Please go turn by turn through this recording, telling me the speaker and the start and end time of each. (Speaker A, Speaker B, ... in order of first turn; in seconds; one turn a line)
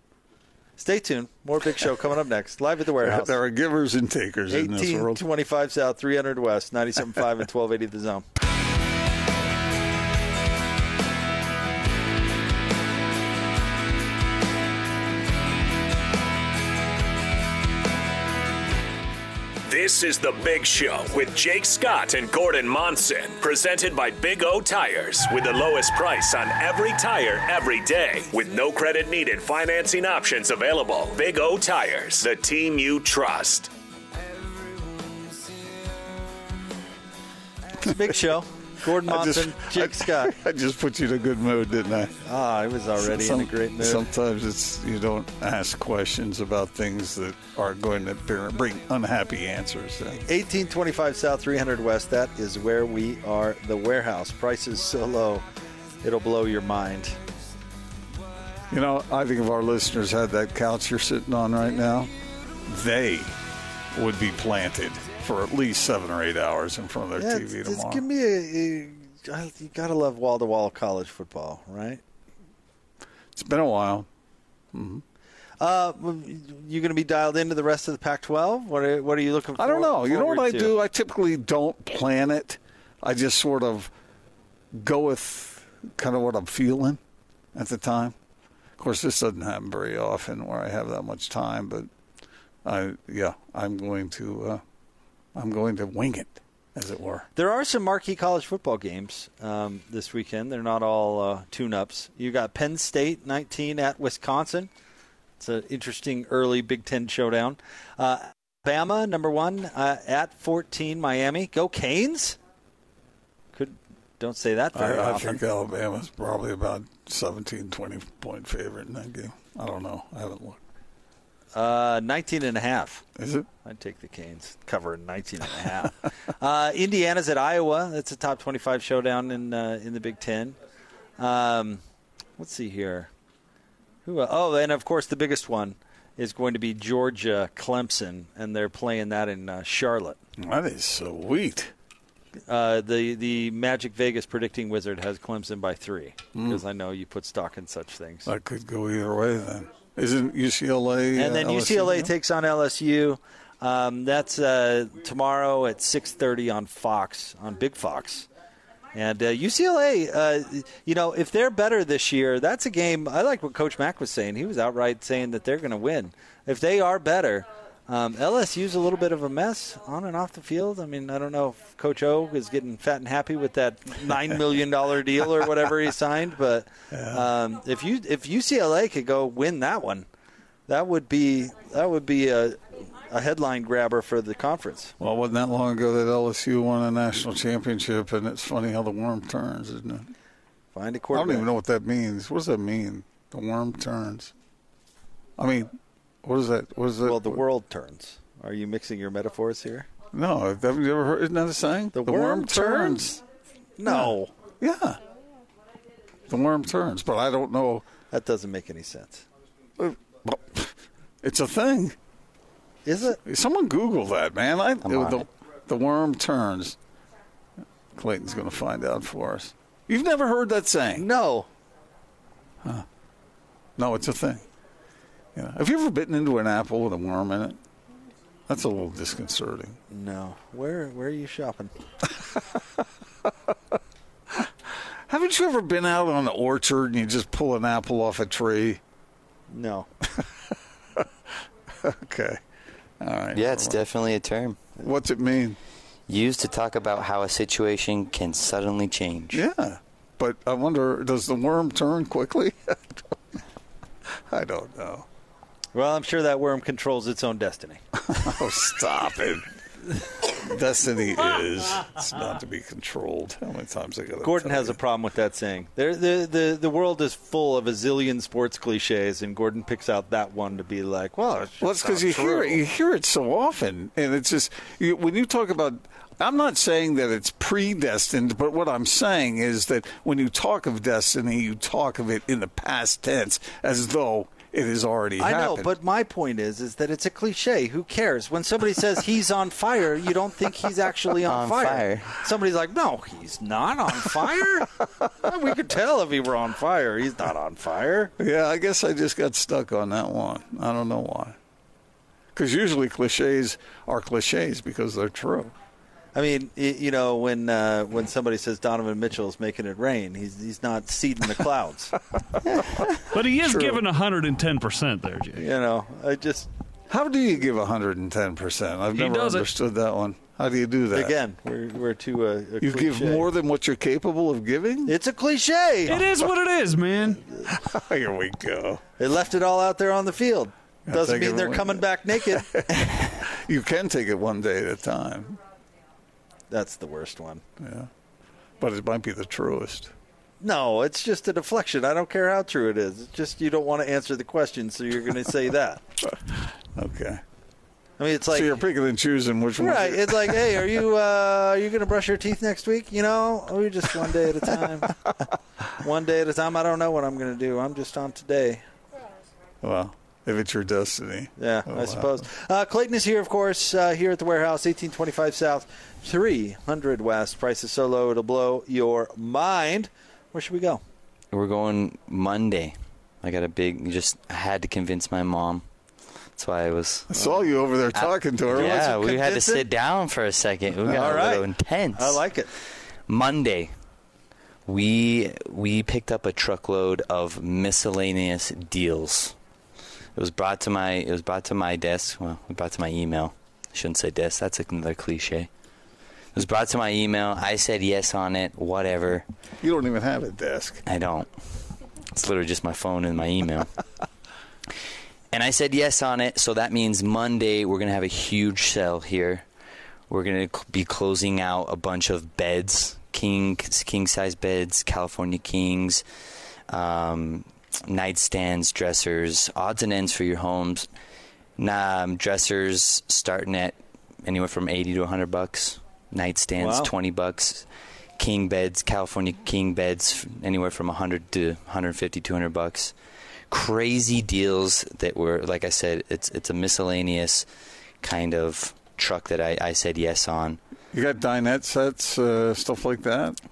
Speaker A: 0.8-3.3
Speaker B: 3.0-5.2
Speaker A: 4.5-8.2
Speaker C: 19.6-33.7
Speaker A: 37.8-40.3
Speaker B: 39.0-42.2
Speaker A: 42.2-44.1
Speaker B: 43.0-50.2
Speaker A: 50.2-55.4
Speaker A: 56.0-57.2
Speaker B: 58.7-62.1
Speaker B: 62.6-63.4
Speaker B: 63.9-68.0
Speaker A: 67.2-72.0
Speaker B: 73.3-74.1
Speaker B: 74.7-75.0
Speaker A: 75.6-80.7
Speaker B: 79.6-83.9
Speaker B: 84.8-87.0
Speaker B: 87.5-88.1
Speaker B: 88.8-91.9
Speaker B: 92.6-94.6
Speaker B: 95.3-97.3
Speaker A: 97.3-104.7
Speaker A: 105.4-112.4
Speaker A: 113.5-115.4
Speaker B: 114.7-120.6
Speaker A: 121.5-123.0
Speaker B: 123.2-123.5
Speaker A: 123.6-130.6
Speaker A: 131.2-131.8
Speaker A: 132.4-133.1
Speaker A: 134.0-140.2
Speaker B: 140.4-141.7
Speaker A: 142.5-148.3
Speaker B: 146.3-146.6
Speaker B: 148.2-152.1
Speaker A: 151.1-158.3
Speaker A: 158.9-180.1
Speaker B: 176.9-177.3
Speaker A: 180.7-184.9
Speaker B: 185.0-190.1
Speaker A: 190.7-191.5
Speaker B: 191.1-194.3
Speaker B: 195.4-197.4
Speaker A: 197.0-199.9
Speaker B: 200.1-203.2
Speaker A: 201.9-203.2
Speaker A: 203.8-204.3
Speaker B: 203.8-205.0
Speaker B: 206.3-207.8
Speaker A: 208.1-209.2
Speaker B: 209.8-211.9
Speaker A: 212.8-213.2
Speaker B: 213.2-216.8
Speaker D: 214.8-215.2
Speaker B: 217.9-221.1
Speaker A: 220.9-221.5
Speaker B: 223.8-224.4
Speaker B: 225.3-227.6
Speaker B: 228.5-229.8
Speaker A: 229.9-231.7
Speaker B: 235.1-238.8
Speaker A: 239.5-239.9
Speaker B: 241.8-242.4
Speaker B: 243.0-243.8
Speaker D: 243.3-244.6
Speaker B: 244.8-245.6
Speaker D: 246.1-249.4
Speaker B: 249.3-253.1
Speaker B: 254.3-255.1
Speaker A: 255.7-257.8
Speaker B: 258.1-259.5
Speaker B: 260.3-264.8
Speaker A: 264.2-272.6
Speaker B: 271.6-285.7
Speaker A: 285.2-294.7
Speaker D: 291.2-292.1
Speaker B: 294.8-295.1
Speaker A: 295.2-298.1
Speaker B: 298.2-301.4
Speaker B: 302.3-305.5
Speaker A: 306.1-311.9
Speaker B: 312.5-313.8
Speaker E: 313.1-315.5
Speaker A: 315.4-316.5
Speaker B: 316.9-321.1
Speaker E: 318.9-319.5
Speaker A: 320.9-323.2
Speaker B: 322.6-324.9
Speaker A: 324.9-326.1
Speaker E: 325.9-327.2
Speaker B: 327.4-328.8
Speaker A: 329.0-332.6
Speaker B: 330.9-335.4
Speaker A: 336.5-337.4
Speaker B: 337.6-337.9
Speaker B: 338.6-339.9
Speaker A: 340.4-345.8
Speaker B: 346.1-347.2
Speaker A: 348.0-348.6
Speaker B: 348.3-350.5
Speaker A: 349.6-355.1
Speaker A: 355.8-358.6
Speaker B: 359.6-362.2
Speaker A: 361.4-370.8
Speaker D: 371.3-375.6
Speaker D: 376.4-377.1
Speaker B: 377.1-378.9
Speaker A: 377.1-377.4
Speaker D: 377.9-382.2
Speaker A: 378.5-379.7
Speaker A: 380.9-382.5
Speaker B: 380.9-381.2
Speaker D: 383.1-383.7
Speaker D: 384.6-389.4
Speaker D: 390.1-395.5
Speaker D: 396.3-399.3
Speaker B: 399.6-400.8
Speaker D: 400.9-401.4
Speaker D: 402.1-403.7
Speaker D: 405.3-409.4
Speaker D: 410.1-416.0
Speaker D: 416.7-420.9
Speaker D: 421.6-427.7
Speaker A: 426.6-426.9
Speaker D: 428.2-432.9
Speaker D: 433.5-437.4
Speaker D: 438.0-440.6
Speaker B: 440.9-443.4